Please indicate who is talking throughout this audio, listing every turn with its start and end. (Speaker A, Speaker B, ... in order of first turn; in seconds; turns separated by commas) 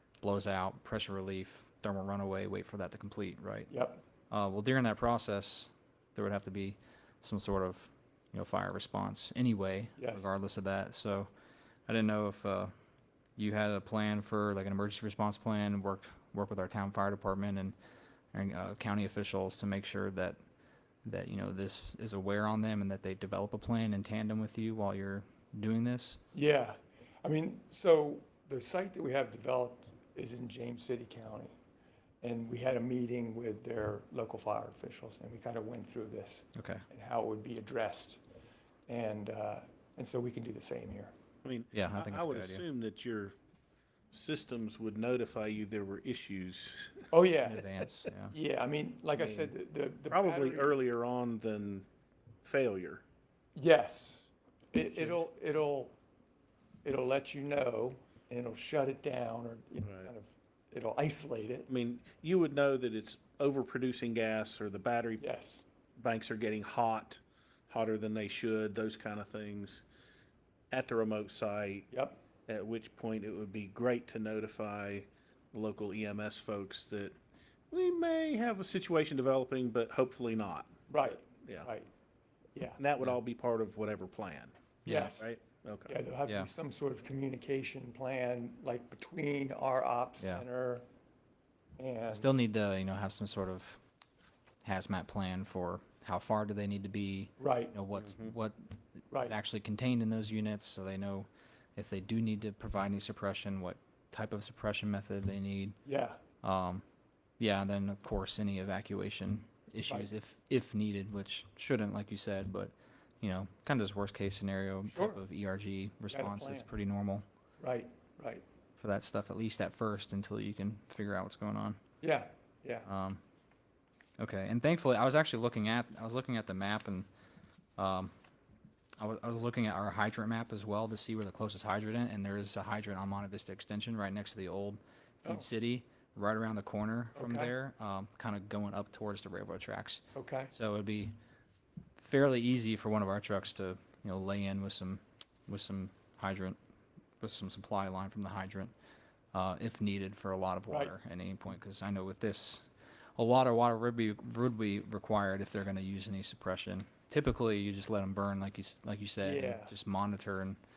Speaker A: 0.2-3.7, Speaker B: 3.7-4.0, Speaker A: 4.3-11.3, Speaker B: 10.0-10.3, Speaker A: 11.9-12.7, Speaker A: 13.4-17.7, Speaker A: 18.3-20.4, Speaker A: 21.0-26.2, Speaker B: 26.3-31.5, Speaker B: 32.2-38.2, Speaker A: 36.5-36.8, Speaker B: 38.9-41.1, Speaker C: 41.4-43.4, Speaker A: 41.7-42.6, Speaker C: 44.1-47.1, Speaker B: 47.1-50.7, Speaker A: 47.4-48.3, Speaker C: 49.1-49.5, Speaker C: 50.1-51.9, Speaker C: 52.4-53.0, Speaker B: 53.5-56.0, Speaker B: 56.8-61.7, Speaker C: 59.8-60.1, Speaker C: 61.7-65.2, Speaker B: 65.2-65.6, Speaker C: 66.0-69.8, Speaker C: 70.7-71.9, Speaker B: 71.9-72.2, Speaker C: 72.5-77.1, Speaker C: 77.7-81.7, Speaker B: 80.9-81.9, Speaker B: 82.5-82.8, Speaker C: 82.8-86.0, Speaker A: 84.8-85.1, Speaker B: 84.8-85.3, Speaker B: 85.9-90.8, Speaker B: 91.8-92.3, Speaker A: 92.1-93.8, Speaker A: 94.6-105.8, Speaker B: 97.4-97.8, Speaker C: 98.0-98.3, Speaker B: 105.8-106.2, Speaker A: 106.4-106.8, Speaker A: 107.4-117.2, Speaker B: 114.8-115.2, Speaker B: 116.1-116.7, Speaker B: 117.6-118.4, Speaker A: 118.8-121.8, Speaker B: 122.0-122.9, Speaker A: 122.8-123.2, Speaker A: 124.2-127.1, Speaker A: 127.8-128.1, Speaker A: 129.0-141.1, Speaker B: 137.2-137.5, Speaker B: 140.1-140.5, Speaker A: 142.0-146.6, Speaker A: 147.2-148.7, Speaker A: 149.3-160.6, Speaker B: 150.7-150.9, Speaker B: 159.2-159.7